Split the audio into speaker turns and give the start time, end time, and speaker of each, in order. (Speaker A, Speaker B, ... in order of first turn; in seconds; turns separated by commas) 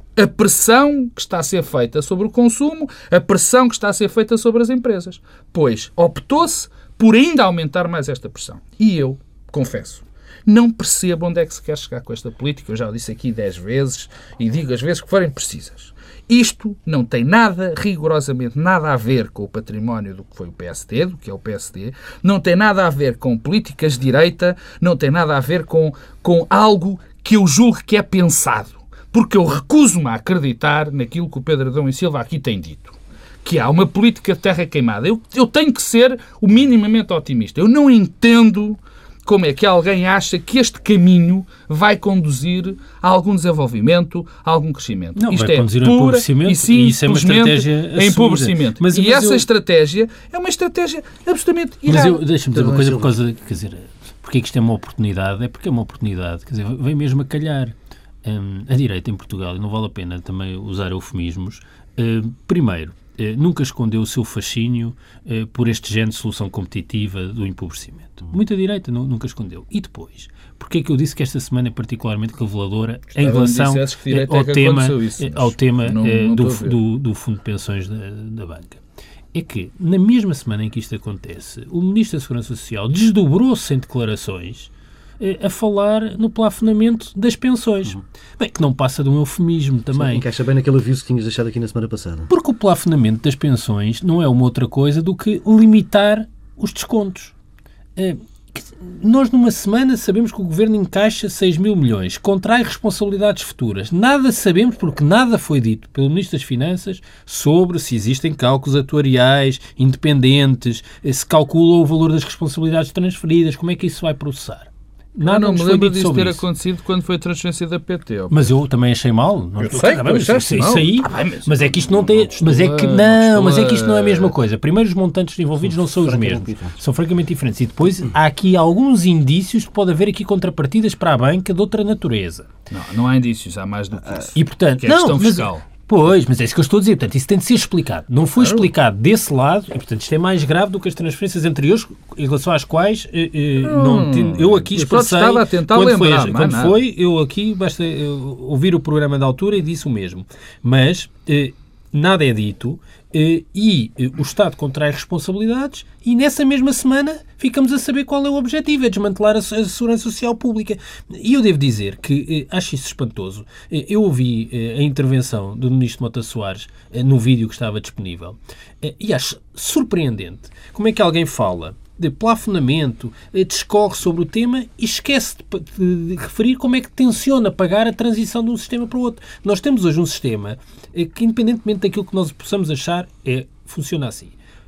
Speaker A: 0.2-52.2, Speaker B: 45.2-49.5, Speaker B: 51.9-78.8, Speaker C: 52.5-53.1, Speaker A: 73.2-76.8, Speaker B: 79.3-90.2, Speaker C: 89.9-92.3, Speaker B: 92.3-97.3, Speaker B: 98.0-116.4, Speaker A: 115.2-118.5, Speaker B: 118.3-132.5, Speaker A: 119.6-124.3, Speaker C: 125.8-126.8, Speaker A: 132.7-135.7, Speaker B: 134.4-184.4, Speaker A: 138.4-138.7, Speaker A: 143.6-146.8